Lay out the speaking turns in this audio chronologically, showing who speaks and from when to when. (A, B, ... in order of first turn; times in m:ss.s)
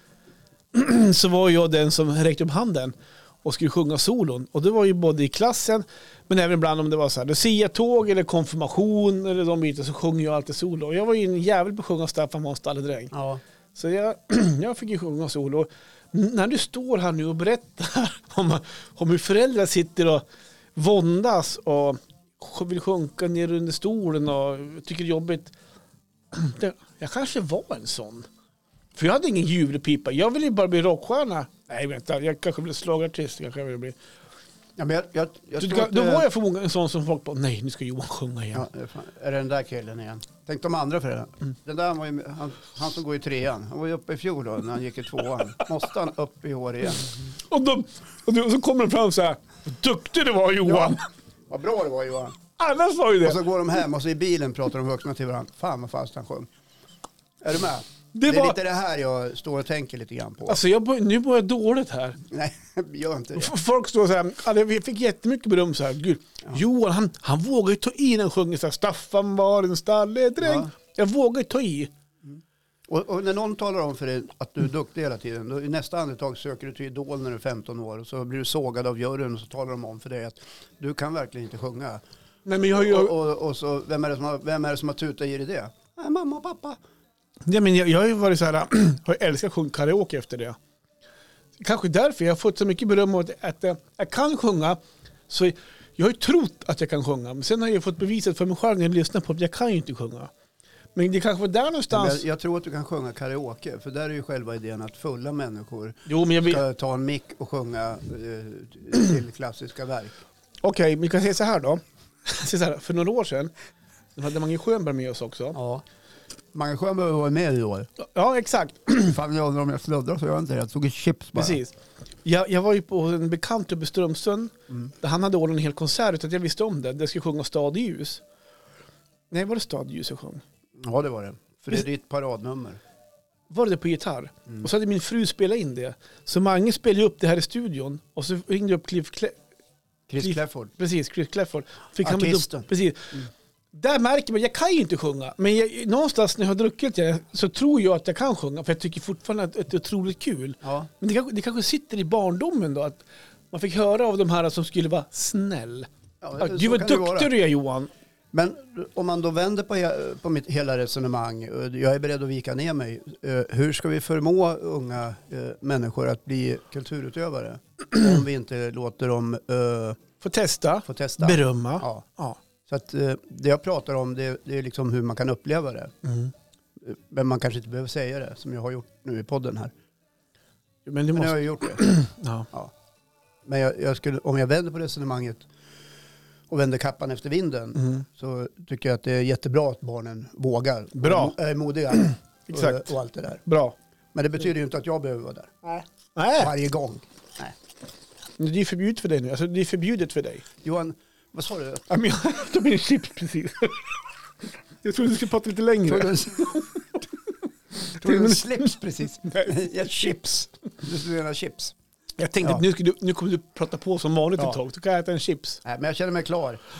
0:00.7-0:13.1 A
0:13.1-0:13.4 B
0:13.7-0:20.2 A
0:20.7-0:25.5 A
0:26.3-0:28.3 A
0:28.9-0:34.0 A
0:34.8-0:36.3 B
0:35.6-0:38.6 A
0:38.5-0:47.1 B
0:47.5-0:51.0 A
0:50.6-0:51.0 B
0:51.5-0:52.4 B
0:52.6-0:53.4 A
0:53.2-0:56.5 B
0:57.4-1:00.6 B
0:58.1-0:58.6 A
1:00.5-1:02.2 A
1:02.2-1:03.5 B
1:03.4-1:11.9 A
1:10.4-1:10.7 B
1:12.2-1:22.0 B
1:22.4-1:23.1 A
1:22.7-1:26.8 B
1:27.4-1:30.6 A
1:31.6-1:40.3 A
1:40.9-1:42.2 A
1:41.9-1:50.2 B
1:46.1-1:46.6 A
1:50.6-1:53.5 A
1:54.2-1:55.6 A
1:55.5-1:55.8 B
1:56.5-1:57.9 B
1:58.0-1:59.2 A
1:59.0-2:01.6 B
2:01.4-2:08.2 A
2:09.3-2:10.4 A
2:10.8-2:12.8 B
2:13.5-2:19.4 A
2:20.1-2:20.7 B
2:20.2-2:23.2 A
2:22.0-2:23.3 B
2:23.7-2:35.9 A
2:30.6-2:30.9 B
2:36.2-2:37.3 B
2:36.4-2:37.9 A
2:38.3-2:50.0 B
2:50.2-2:52.4 A
2:50.8-2:52.0 B
2:52.6-2:55.9 B
2:56.0-2:56.3 A
2:56.8-2:59.7 B
3:00.8-3:02.5 A
3:01.1-3:01.8 B
3:03.4-3:05.5 B
3:06.5-3:13.4 B
3:11.0-3:11.3 A
3:12.5-3:12.9 A
3:13.4-3:13.8 A
3:14.1-3:15.5 B
3:15.6-3:16.5 A
3:16.4-3:17.5 B
3:18.4-3:20.4 A
3:20.6-3:21.9 B
3:21.9-3:24.0 A
3:24.8-3:26.6 A
3:25.8-3:26.8 B
3:27.9-3:31.7 B
3:28.0-3:28.4 A
3:29.3-3:29.5 A
3:32.2-3:35.6 A
3:35.6-3:36.6 B